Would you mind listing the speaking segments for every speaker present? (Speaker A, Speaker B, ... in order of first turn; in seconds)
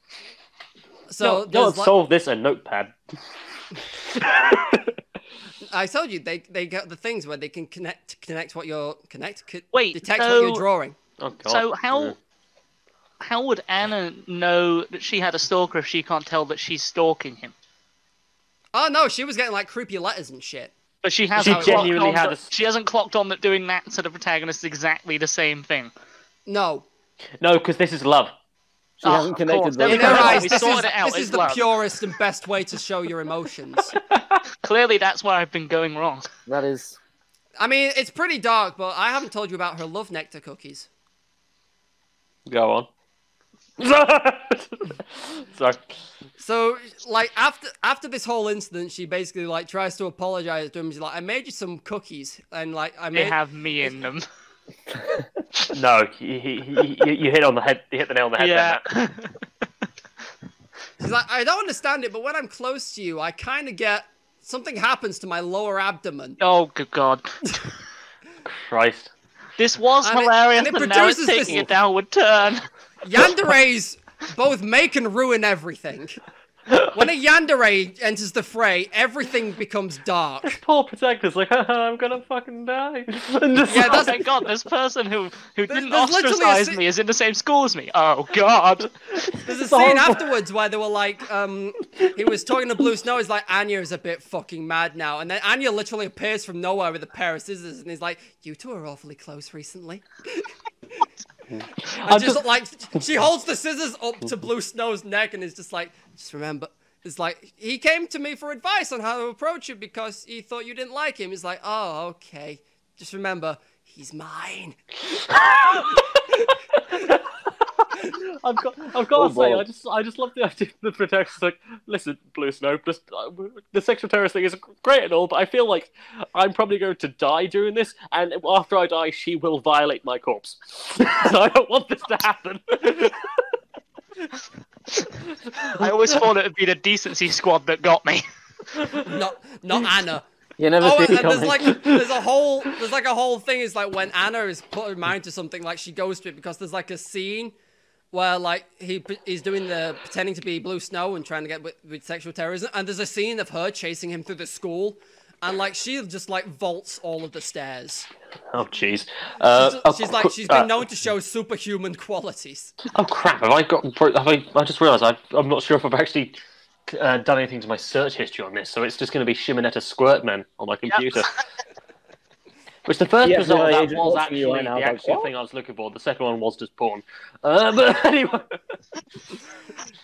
Speaker A: 1.1-1.9, 5.7-11.0, 18.7-20.7, 26.5-26.8, 29.8-33.9, 37.6-40.9, 46.4-53.4, 61.0-66.4, 70.0-71.7, 73.0-76.2, 76.9-80.6, 83.6-84.2, 85.7-86.8, 89.4-101.0, 101.9-116.0, 139.1-140.2, 140.8-147.5, 148.1-158.1, 159.5-162.7
Speaker B: 1.2-2.9, 4.1-4.9, 11.2-12.2, 21.4-22.5, 27.4-28.3, 30.0-30.4, 34.1-34.4, 42.5-42.9, 43.8-45.8, 55.7-58.8, 68.5-69.1, 80.4-84.2, 89.7-90.2, 101.5-102.4, 115.3-133.4, 158.5-160.7, 162.9-166.3, 166.9-171.4, 172.8-178.6
Speaker C: 9.7-10.6, 11.5-12.2, 13.2-17.5, 21.0-25.9, 29.0-31.7, 34.6-36.3, 53.1-54.2, 58.4-59.4, 66.4-67.6, 69.6-72.7, 83.7-89.5, 135.6-138.2, 170.9-171.2
Speaker D: 29.0-30.7, 36.5-37.0, 119.1-119.6, 140.6-141.8, 173.2-175.3